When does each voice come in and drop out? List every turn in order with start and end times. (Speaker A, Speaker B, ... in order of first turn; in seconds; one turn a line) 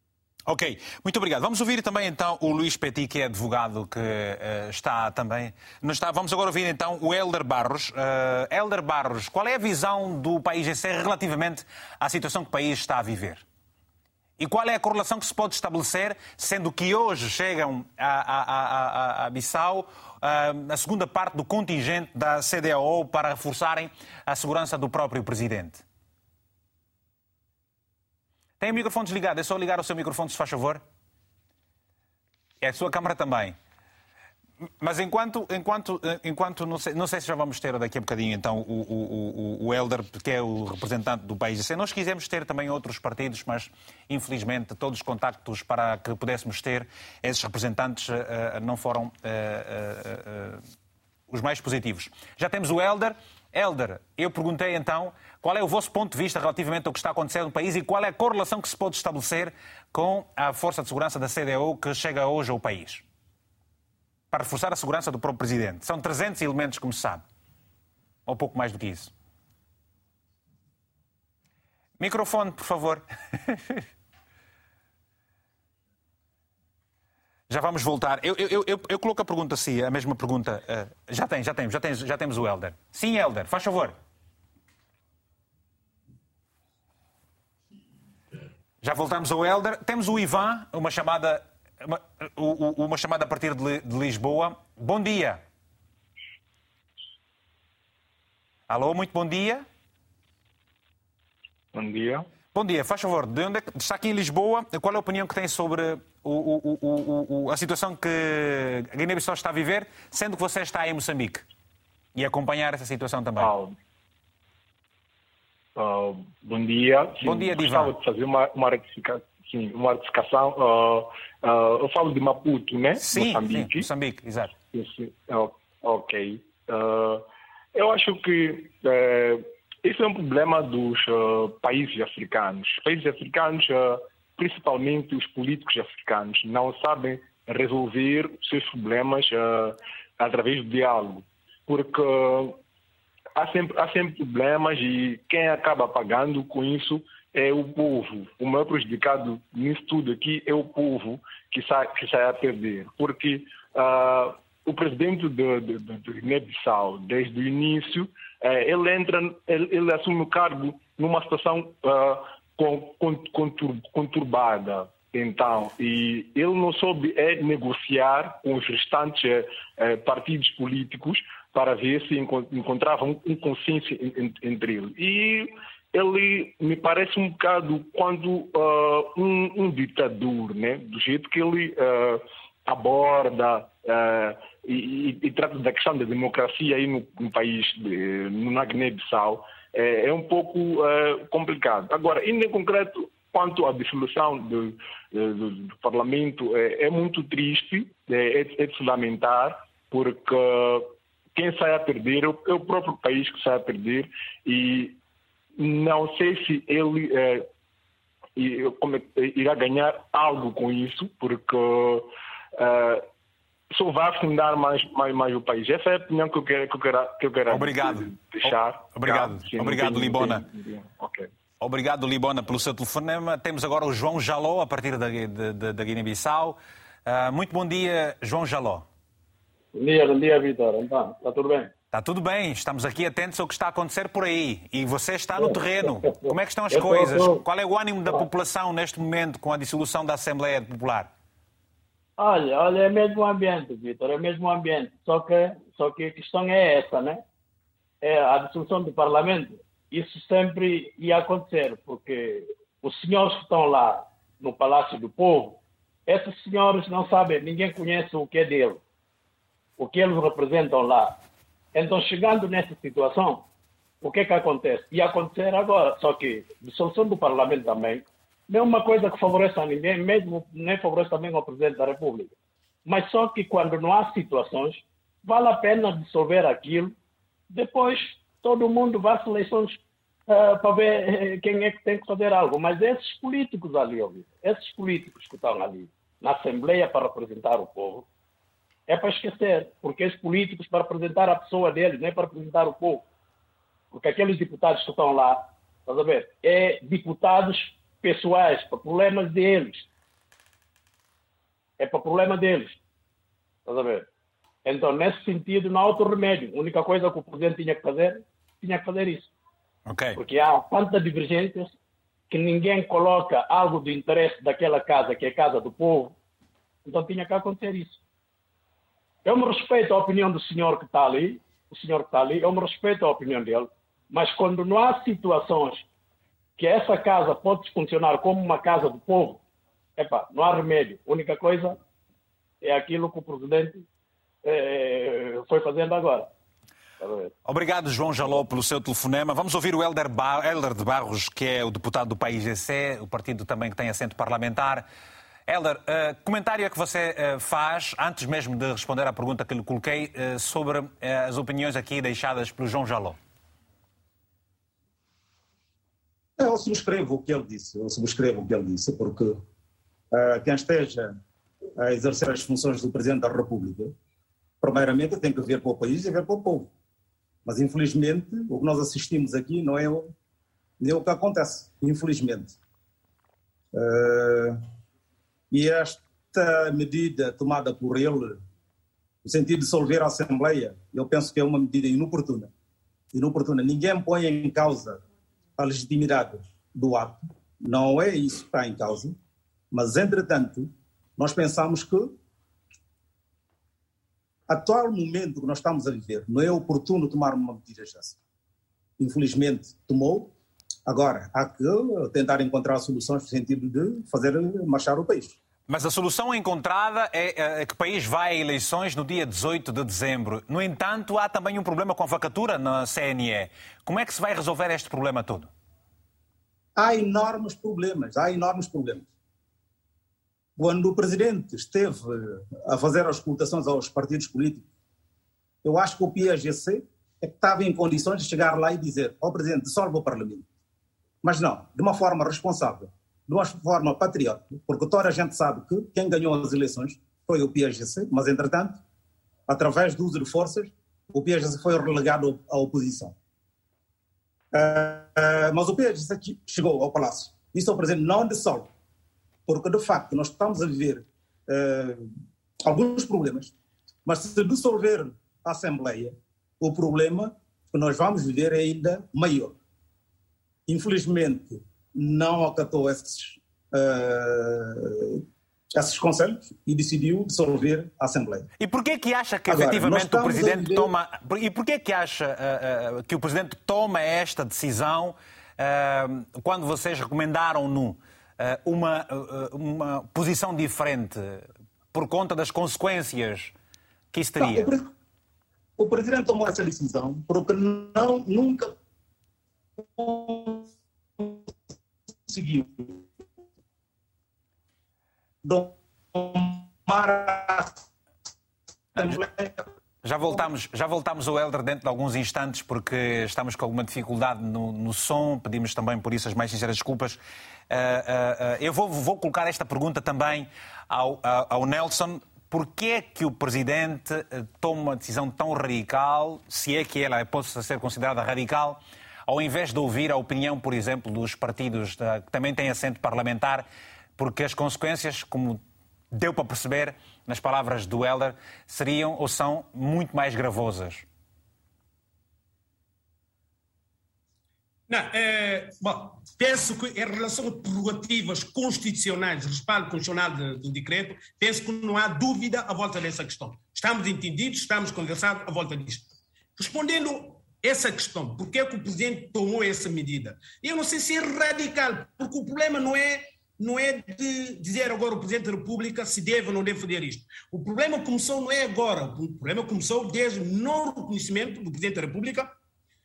Speaker A: 0.5-13.4
Speaker A: 14.4-25.8
Speaker A: 28.6-30.8
Speaker A: 32.6-33.6
Speaker A: 34.8-50.6
Speaker A: 51.3-63.0
Speaker A: 64.3-67.2
Speaker A: 68.3-69.1
Speaker A: 72.0-73.8
Speaker A: 77.5-84.0
Speaker A: 88.8-95.4
Speaker A: 98.7-99.7
Speaker B: 101.7-102.3
Speaker A: 102.5-111.5
Speaker A: 112.2-113.5
Speaker B: 113.4-113.8
Speaker B: 115.8-123.9
Speaker A: 117.2-117.9
Speaker A: 123.0-124.5
Speaker B: 124.7-142.6
Speaker B: 143.3-205.0
Speaker B: 205.6-207.5
Speaker B: 208.4-213.1
Speaker B: 213.7-221.3
Speaker A: 217.5-220.4
Speaker A: 221.6-228.9
Speaker C: 229.7-231.7
Speaker A: 231.9-241.1
Speaker C: 235.4-237.4
Speaker C: 242.2-247.2
Speaker C: 248.0-258.8
Speaker C: 259.8-261.2
Speaker C: 261.7-263.5
Speaker C: 264.0-272.4
Speaker C: 272.9-276.9
Speaker C: 277.5-288.1
Speaker C: 288.9-293.1
Speaker C: 293.9-299.9
Speaker C: 301.8-302.8
Speaker C: 303.7-304.1
Speaker C: 304.6-309.3
Speaker A: 309.9-310.2
Speaker C: 310.2-311.7
Speaker C: 312.3-316.2
Speaker C: 316.9-318.0
Speaker C: 319.2-325.9
Speaker C: 326.6-329.4
Speaker C: 330.0-331.8
Speaker C: 332.6-333.9
Speaker C: 334.4-336.3
Speaker C: 337.0-337.3
Speaker A: 337.4-344.9
Speaker A: 345.5-353.2
Speaker D: 356.4-359.4
Speaker D: 360.1-361.2
Speaker D: 361.8-363.9
Speaker D: 364.6-366.7
Speaker D: 367.4-370.1
Speaker D: 370.8-372.6
Speaker D: 373.7-374.6
Speaker D: 375.5-378.4
Speaker D: 379.2-382.5
Speaker D: 383.1-385.0
Speaker D: 385.6-389.2
Speaker D: 389.7-392.1
Speaker D: 394.5-398.2
Speaker D: 399.0-400.3
Speaker D: 400.9-405.4
Speaker A: 405.7-415.5
Speaker D: 416.8-419.1
Speaker D: 420.6-424.7
Speaker D: 425.6-430.5
Speaker D: 431.2-438.8
Speaker D: 439.5-443.1
Speaker D: 444.5-448.7
Speaker D: 449.5-452.1
Speaker D: 452.6-453.5
Speaker D: 454.1-459.6
Speaker D: 460.7-468.5
Speaker A: 468.6-483.5
Speaker D: 469.5-470.9
Speaker A: 484.1-484.7
Speaker D: 484.4-484.9
Speaker D: 485.8-488.7
Speaker D: 489.8-491.7
Speaker D: 492.3-493.1
Speaker D: 495.4-497.9
Speaker D: 498.9-499.7
Speaker A: 500.0-507.2
Speaker A: 507.7-523.7
Speaker A: 524.2-525.6
Speaker A: 526.1-531.0
Speaker E: 534.9-562.5